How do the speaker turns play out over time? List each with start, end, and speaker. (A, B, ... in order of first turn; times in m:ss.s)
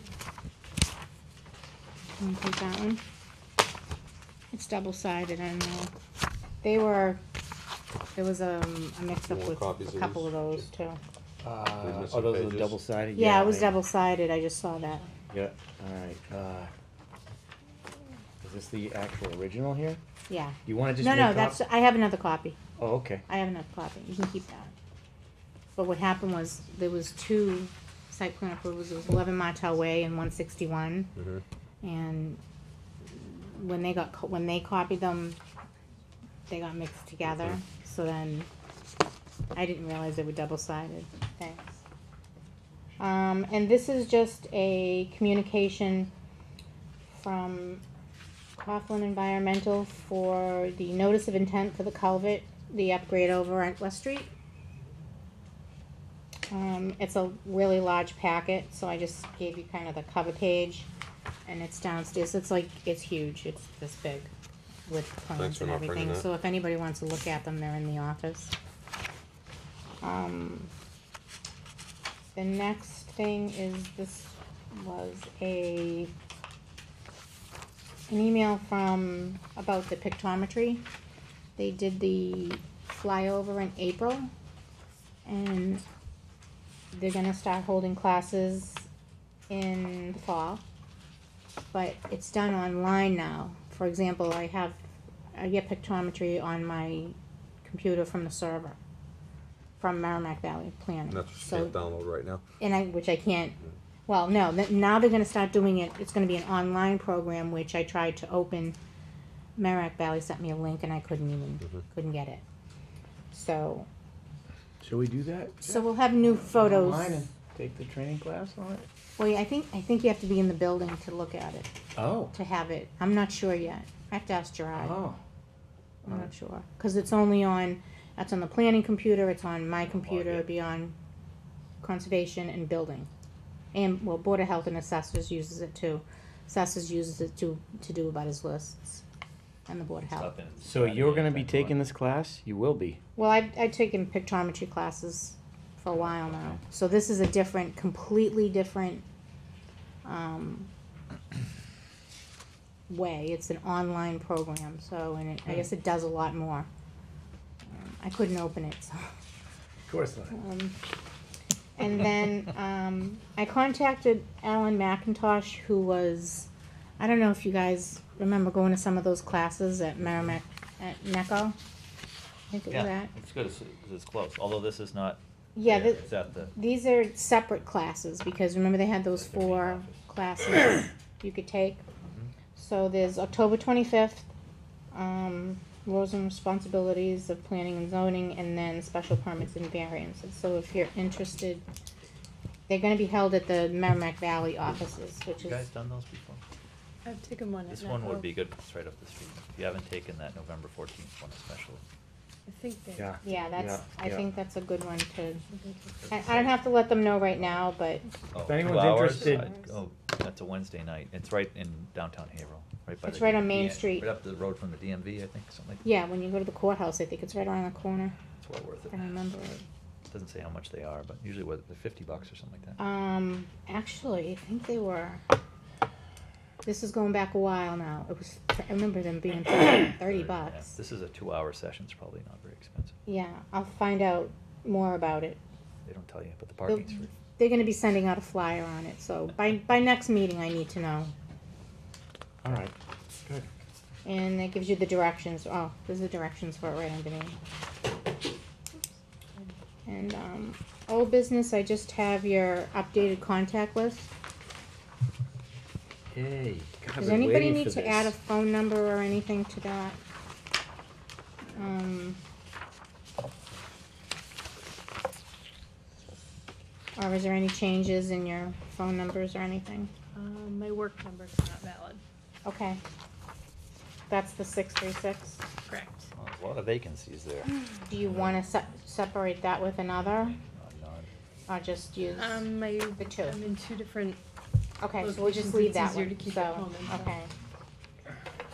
0:02.2-0:03.0 A
0:04.5-0:05.9 A
0:06.6-0:07.2 A
0:08.2-0:11.0 A
0:09.2-0:10.4 B
0:11.4-0:13.8 C
0:11.8-0:12.8 B
0:13.1-0:15.0 A
0:15.3-0:16.7 C
0:18.4-0:20.0 C
0:20.3-0:22.6 A
0:20.6-0:21.6 C
0:22.8-0:23.2 C
0:23.3-0:24.7 A
0:25.8-0:31.1 A
0:31.2-0:31.4 B
0:31.8-0:32.4 A
0:33.1-0:35.4 A
0:36.5-0:38.5 A
0:39.5-0:41.8 A
0:43.0-0:46.1 A
0:47.1-0:47.8 A
0:48.6-0:54.3 A
0:56.5-1:00.9 A
1:01.4-1:04.3 A
1:04.9-1:08.5 A
1:05.3-1:06.2 B
1:10.0-1:10.7 A
1:12.3-1:16.1 A
1:18.1-1:20.8 A
1:21.6-1:24.3 A
1:25.2-1:25.8 A
1:26.9-1:28.9 A
1:29.5-1:30.6 A
1:31.7-1:34.8 A
1:35.3-1:38.8 A
1:39.8-1:41.8 A
1:41.1-1:42.4 B
1:42.6-1:43.6 A
1:44.1-1:48.8 A
1:49.6-1:52.4 A
1:53.3-1:53.9 A
1:54.8-1:58.8 C
1:55.6-1:57.2 A
1:59.2-2:01.7 A
2:01.9-2:02.3 C
2:02.3-2:05.0 A
2:04.8-2:05.2 C
2:06.0-2:11.0 A
2:09.8-2:10.5 D
2:11.8-2:13.1 A
2:13.7-2:19.0 A
2:19.7-2:20.3 A
2:20.0-2:21.8 D
2:20.6-2:23.0 C
2:23.2-2:29.0 A
2:30.0-2:30.7 A
2:32.9-2:36.7 A
2:37.7-2:39.0 A
2:39.9-2:40.3 C
2:40.3-2:40.8 A
2:41.8-2:51.6 A
2:52.5-2:53.1 A
2:52.7-2:56.5 D
2:55.5-3:01.8 A
2:59.1-3:00.0 D
3:02.0-3:02.3 D
3:02.5-3:04.3 A
3:04.9-3:11.6 A
3:12.7-3:15.6 A
3:15.4-3:16.4 D
3:17.0-3:18.3 E
3:17.7-3:21.8 D
3:22.5-3:23.4 E
3:23.0-3:24.2 C
3:23.2-3:25.4 A
3:25.5-3:26.0 E
3:26.0-3:26.6 D
3:26.1-3:28.1 A
3:28.3-3:35.8 D
3:28.4-3:29.5 C
3:29.1-3:29.7 E
3:33.0-3:34.1 A
3:35.8-3:38.1 A
3:38.4-3:39.1 D
3:38.9-3:39.6 A
3:40.1-3:42.8 D
3:42.8-3:45.2 A
3:46.6-3:50.7 A
3:50.0-3:53.0 D
3:53.0-3:55.4 A
3:55.8-3:57.1 D
3:56.7-4:01.1 A
4:02.4-4:03.5 C
4:04.0-4:07.4 A
4:08.7-4:09.5 E
4:09.8-4:14.1 A
4:16.1-4:18.1 C
4:17.0-4:20.0 A
4:21.5-4:22.2 A
4:27.0-4:29.9 A
4:30.1-4:32.0 E
4:32.4-4:32.8 A
4:34.1-4:35.4 A
4:35.7-4:36.1 E
4:36.1-4:37.5 D
4:37.8-4:40.4 A
4:38.0-4:38.3 D
4:40.1-4:41.1 D
4:41.5-4:43.4 A
4:42.2-4:44.2 E
4:44.8-4:47.3 A
4:44.9-4:47.1 E